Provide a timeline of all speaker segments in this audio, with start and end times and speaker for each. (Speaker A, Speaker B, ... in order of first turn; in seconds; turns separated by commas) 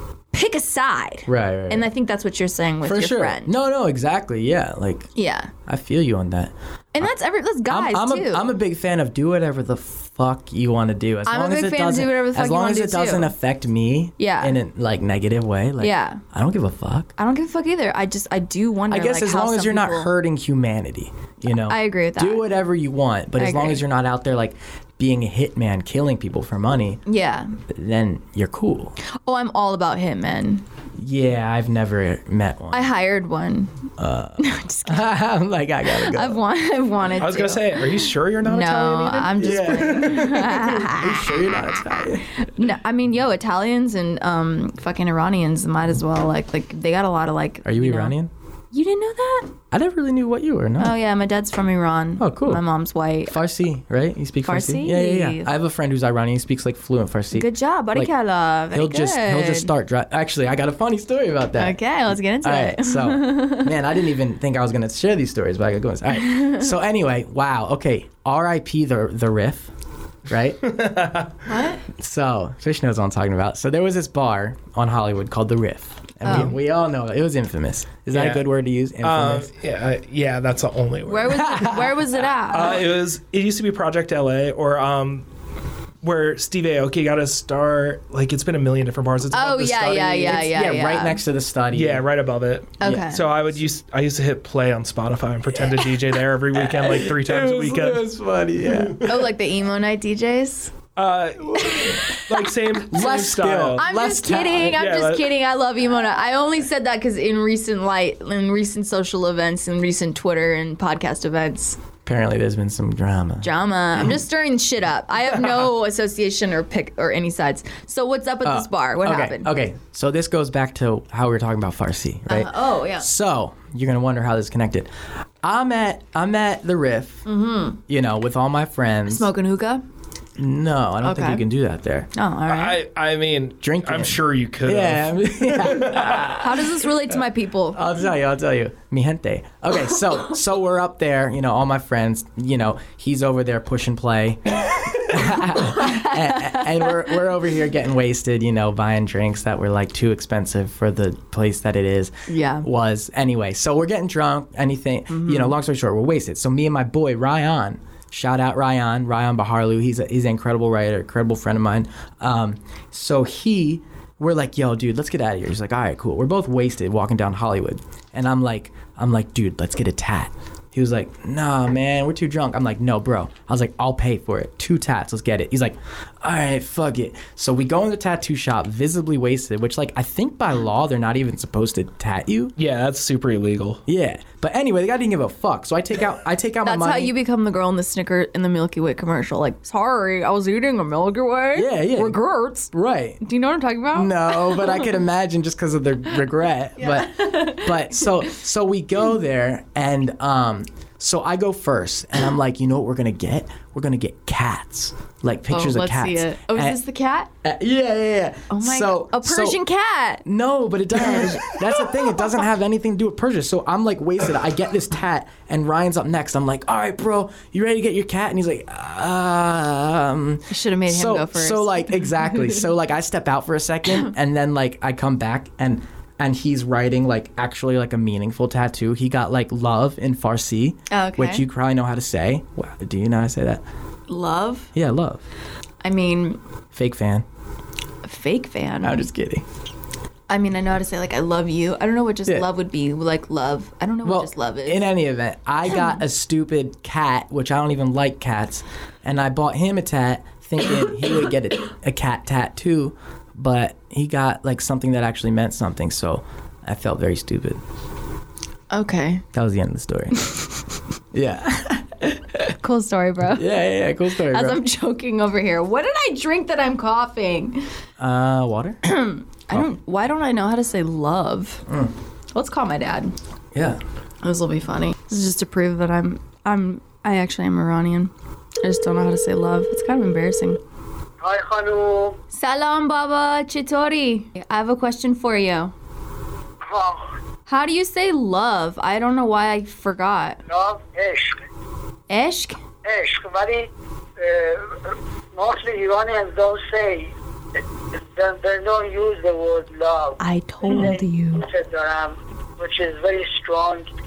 Speaker A: 0.3-3.5, Speaker B: 1.3-1.9, Speaker B: 2.8-5.1, Speaker A: 5.2-5.5, Speaker B: 5.7-7.1, Speaker A: 6.9-8.4, Speaker B: 7.7-17.1, Speaker A: 11.3-13.3, Speaker A: 14.2-14.6, Speaker A: 15.8-16.2, Speaker A: 17.2-20.1, Speaker B: 18.9-27.0, Speaker A: 21.4-22.5, Speaker A: 23.4-23.8, Speaker A: 27.1-27.6, Speaker B: 27.7-28.9, Speaker A: 29.1-30.6, Speaker B: 31.0-32.9, Speaker A: 32.7-33.7, Speaker B: 34.0-36.4, Speaker A: 34.4-35.1, Speaker A: 35.9-41.4, Speaker C: 37.2-40.4, Speaker B: 39.3-42.3, Speaker A: 42.4-48.1, Speaker B: 47.6-48.3, Speaker A: 48.7-49.5, Speaker B: 49.7-50.9, Speaker A: 50.8-53.4, Speaker B: 52.2-52.6, Speaker B: 53.3-58.1, Speaker A: 54.4-55.5, Speaker A: 57.3-59.7, Speaker B: 58.7-61.8, Speaker A: 61.6-63.7, Speaker B: 62.4-69.7, Speaker A: 66.2-66.6, Speaker B: 70.3-70.8, Speaker C: 70.7-71.3, Speaker A: 71.5-71.8, Speaker B: 71.9-79.5, Speaker A: 76.2-76.6, Speaker C: 76.3-76.5, Speaker C: 78.1-78.5, Speaker C: 79.0-81.8, Speaker A: 81.1-82.8, Speaker B: 81.3-82.0, Speaker C: 82.5-85.2, Speaker C: 86.0-90.5, Speaker A: 89.3-91.2, Speaker B: 90.2-92.0, Speaker C: 91.7-98.1, Speaker A: 92.8-93.2, Speaker B: 92.8-93.1, Speaker B: 96.5-99.0, Speaker C: 98.7-99.2, Speaker A: 99.0-100.8, Speaker C: 101.0-103.8, Speaker B: 101.5-102.0, Speaker A: 101.6-102.0, Speaker B: 102.8-104.8, Speaker A: 103.8-111.8, Speaker C: 104.7-105.3, Speaker B: 112.0-114.1, Speaker A: 113.4-119.5, Speaker B: 118.4-124.9, Speaker A: 122.3-123.1, Speaker B: 125.4-127.2, Speaker A: 127.3-127.8, Speaker B: 127.9-129.3, Speaker A: 129.1-129.8, Speaker B: 130.4-132.1, Speaker A: 131.0-131.4, Speaker A: 132.1-132.8, Speaker C: 132.5-136.3, Speaker B: 133.6-137.1, Speaker A: 136.3-137.8, Speaker B: 137.7-182.5, Speaker A: 145.8-146.9, Speaker A: 152.3-152.7, Speaker A: 155.1-155.6, Speaker C: 182.6-183.8, Speaker B: 183.9-187.1, Speaker A: 186.6-194.9, Speaker B: 191.5-192.2, Speaker B: 192.7-193.2, Speaker B: 193.9-206.8, Speaker A: 196.8-198.3, Speaker A: 205.5-207.3, Speaker B: 207.4-209.6, Speaker A: 208.5-210.2, Speaker B: 210.2-233.6, Speaker A: 210.9-211.6, Speaker A: 220.5-222.6, Speaker A: 230.9-231.4, Speaker A: 234.1-234.7, Speaker B: 234.7-235.2, Speaker A: 235.8-236.4, Speaker B: 236.7-237.3, Speaker A: 238.0-239.1, Speaker B: 238.8-239.4, Speaker A: 240.3-244.9, Speaker B: 244.0-257.6, Speaker A: 258.7-259.2, Speaker B: 259.3-260.4, Speaker B: 261.1-262.5, Speaker A: 262.6-263.5, Speaker B: 263.3-264.6, Speaker A: 264.2-267.6, Speaker B: 268.0-268.8, Speaker A: 268.9-271.6, Speaker B: 271.7-271.9, Speaker A: 272.4-273.1, Speaker B: 273.5-273.8, Speaker A: 274.2-278.1, Speaker A: 278.6-280.6, Speaker D: 281.2-282.2, Speaker A: 282.3-285.7, Speaker D: 286.6-287.1, Speaker A: 287.5-290.4, Speaker D: 290.5-291.4, Speaker A: 292.1-292.6, Speaker D: 292.8-297.1, Speaker D: 297.9-303.9, Speaker A: 300.2-301.4